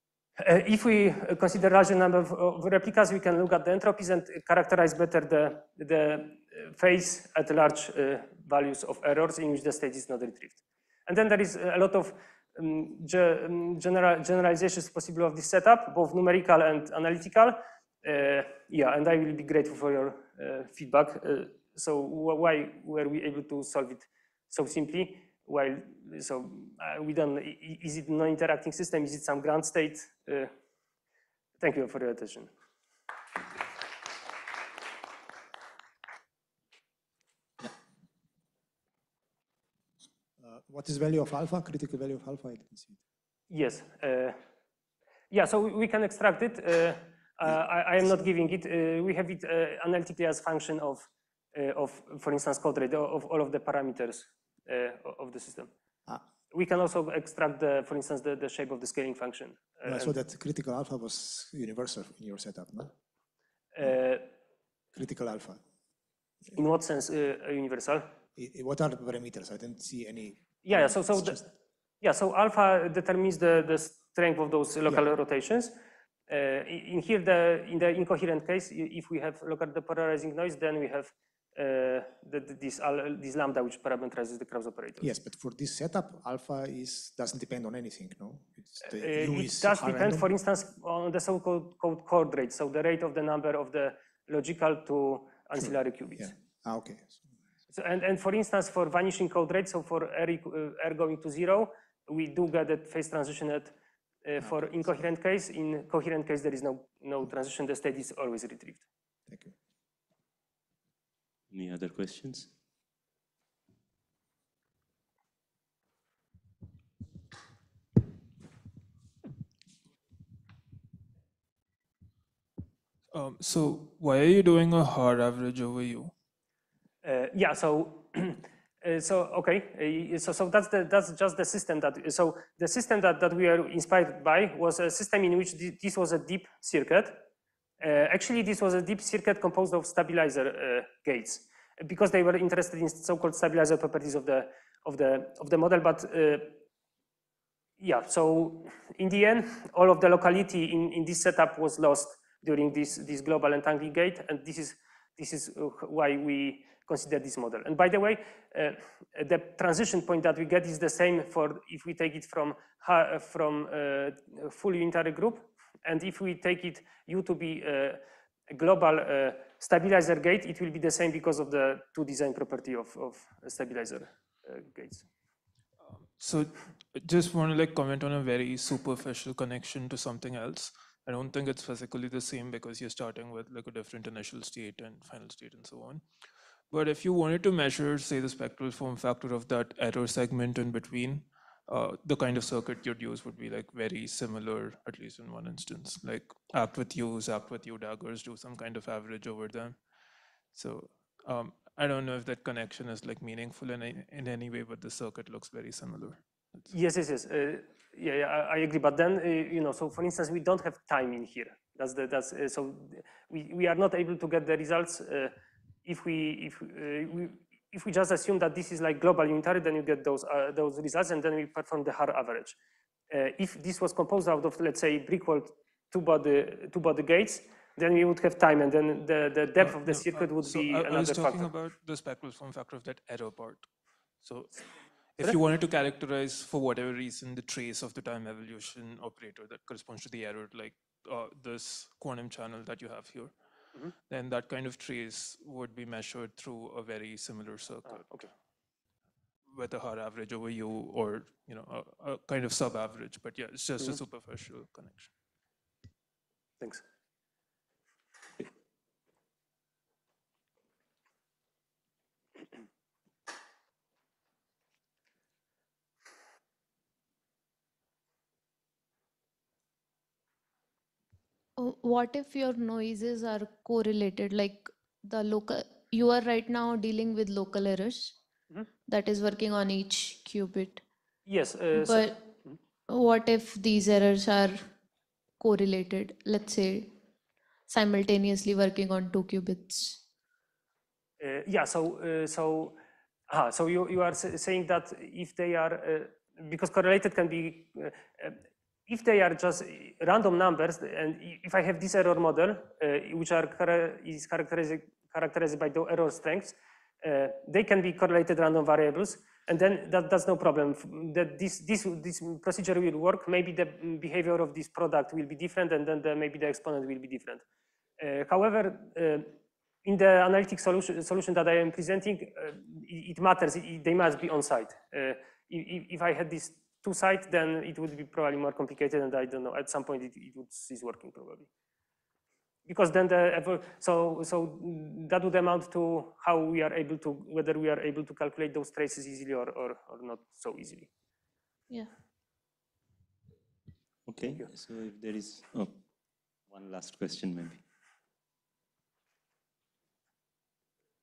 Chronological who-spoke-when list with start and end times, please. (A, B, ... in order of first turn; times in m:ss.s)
0:00.4-0:30.5 A
0:31.6-0:32.5 A
0:40.4-0:43.0 B
0:43.5-0:44.4 A
0:45.3-0:55.7 A
0:56.5-1:00.2 A
0:59.8-1:02.9 B
1:03.8-1:04.3 A
1:04.9-1:05.6 B
1:06.5-1:08.1 A
1:08.4-1:11.5 B
1:10.6-1:11.4 A
1:12.0-1:15.7 A
1:16.3-1:25.1 A
1:25.0-1:30.3 B
1:28.8-1:36.3 A
1:35.6-1:37.4 B
1:37.7-1:48.8 A
1:49.3-1:49.5 B
1:51.5-1:52.5 C
2:03.1-2:06.1 D
2:07.0-2:17.2 A
2:17.8-2:26.6 A
2:27.8-2:55.1 A
2:55.8-3:06.0 D
3:06.7-3:19.8 D
3:20.5-3:26.2 D
3:26.7-3:35.3 A
3:35.8-3:42.6 A
3:43.1-3:51.5 A
3:49.6-3:53.7 D
3:54.2-4:03.3 D
4:04.1-4:08.1 D
4:07.9-4:08.3 A
4:09.5-4:15.1 D
4:31.6-4:38.2 E
4:38.9-4:40.8 E
4:41.3-4:42.2 A
4:41.8-4:42.3 E
4:42.9-4:44.6 E
4:45.4-4:46.9 E
4:47.7-4:50.0 E
4:51.2-4:52.8 A
4:53.3-5:17.4 A
5:18.0-5:31.5 A
5:32.7-5:40.9 A
5:44.1-5:45.8 C
5:46.5-5:47.6 C